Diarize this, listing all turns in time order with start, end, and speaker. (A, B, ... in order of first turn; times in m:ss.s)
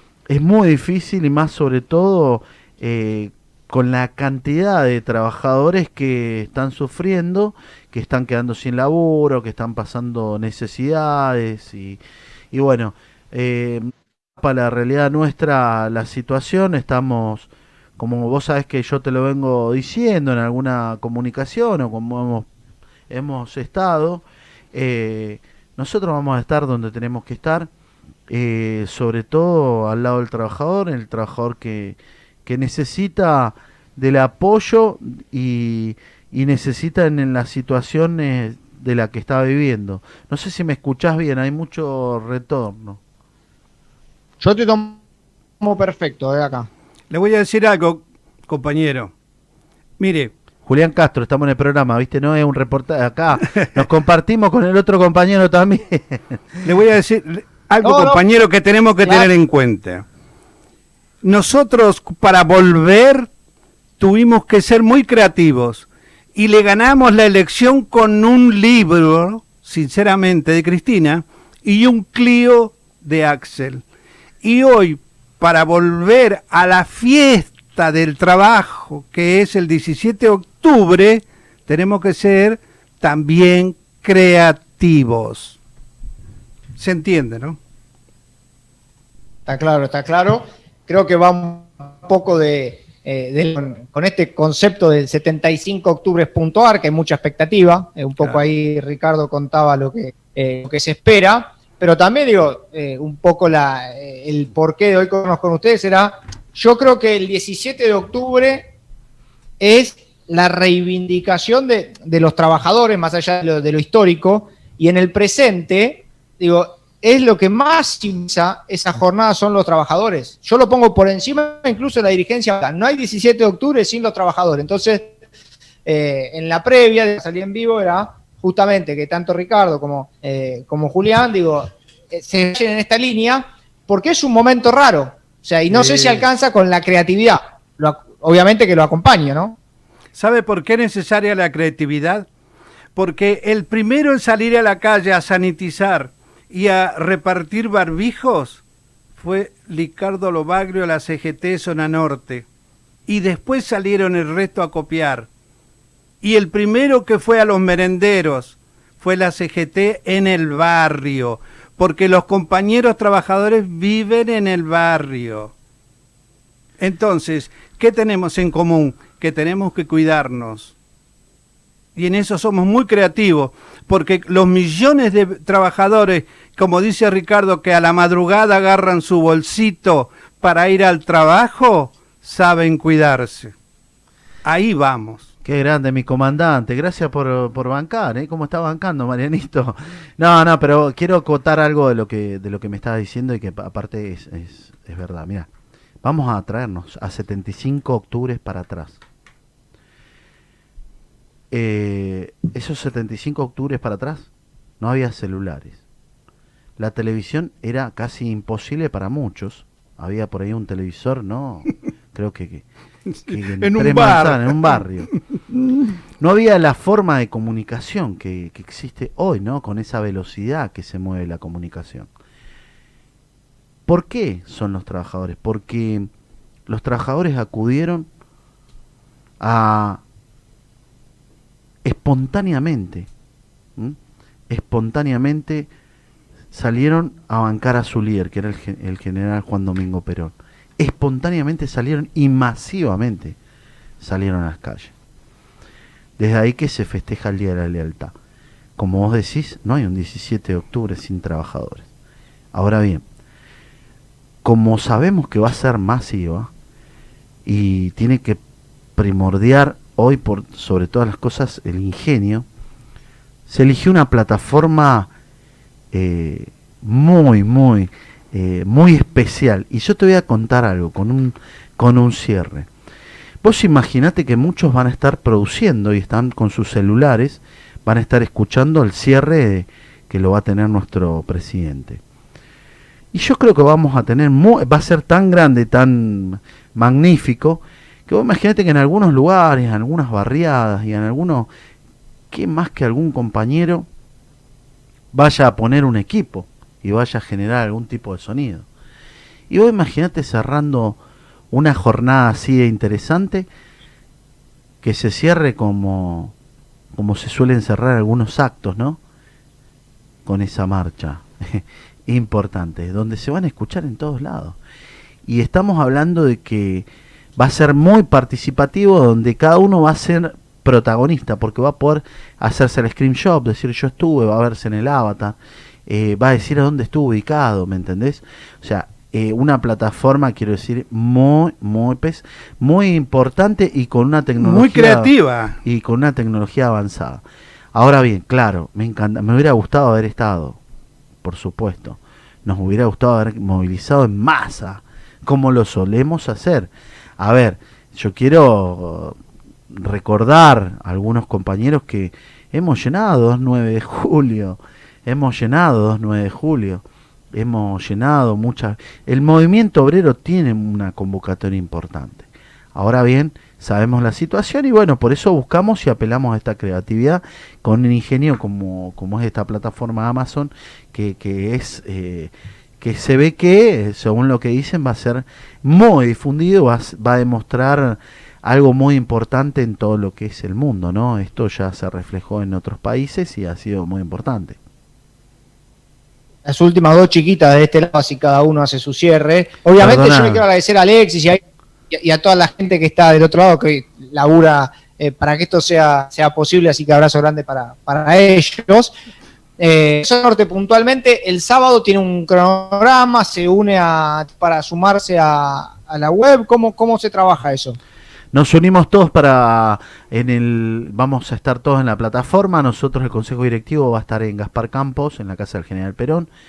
0:00.3-0:12.0 A
0:12.5-0:13.9 A
0:14.4-0:22.5 A
0:23.1-0:27.7 A
0:28.3-0:43.0 A
0:44.4-0:45.0 B
0:45.6-0:46.7 B
0:47.1-0:49.1 C
0:50.0-0:50.3 C
0:50.6-0:56.6 A
0:56.6-1:00.0 C
0:57.8-0:58.2 B
0:59.0-0:59.3 B
1:01.2-1:03.3 C
1:04.0-1:13.8 C
1:14.4-1:25.6 C
1:26.8-1:27.6 C
1:29.4-1:48.7 B
1:38.2-1:38.4 C
1:49.6-2:05.1 B
2:05.8-2:19.6 B
2:15.7-2:16.2 C
2:20.1-2:22.3 C
2:22.9-2:28.6 C
2:29.2-2:32.4 C
2:33.1-2:35.3 C
2:36.2-2:45.5 C
2:46.8-2:50.7 C
2:51.9-3:03.5 C
3:04.4-3:05.3 C
3:05.4-3:15.5 A
3:16.0-3:19.0 A
3:21.5-3:24.3 A
3:24.8-3:25.8 A
3:26.8-3:32.6 A
3:33.1-3:35.2 C
3:33.3-3:35.1 A
3:36.2-3:42.1 A
3:43.9-3:46.1 A
3:46.7-3:48.1 A
3:49.4-3:50.0 A
3:51.8-3:53.1 A
3:54.5-3:55.7 A
3:56.5-4:03.4 A
4:04.0-4:04.9 A
4:06.2-4:08.1 A
4:08.8-4:11.9 A
4:12.5-4:13.0 A
4:14.4-4:16.5 A
4:17.4-4:18.4 A
4:19.0-4:22.5 A
4:23.5-4:25.1 A
4:25.9-4:32.7 A
4:33.4-4:42.0 A
4:43.1-4:51.5 A
4:52.3-4:53.9 A
4:55.1-4:58.7 A
4:59.5-5:01.0 A
5:01.5-5:03.5 A
5:04.8-5:06.3 A
5:07.0-5:09.0 A
5:10.2-5:14.6 A
5:15.2-5:16.9 A
5:17.4-5:25.4 A
5:25.9-5:35.1 A
5:34.4-5:35.6 C
5:35.6-5:37.2 A
5:37.8-5:40.6 A
5:41.2-5:49.1 A
5:49.7-5:56.8 A
5:57.3-6:24.6 A
6:26.4-6:31.4 B
6:29.8-6:30.4 A
6:31.9-6:38.9 B
6:39.6-6:47.8 B
6:48.3-6:56.3 A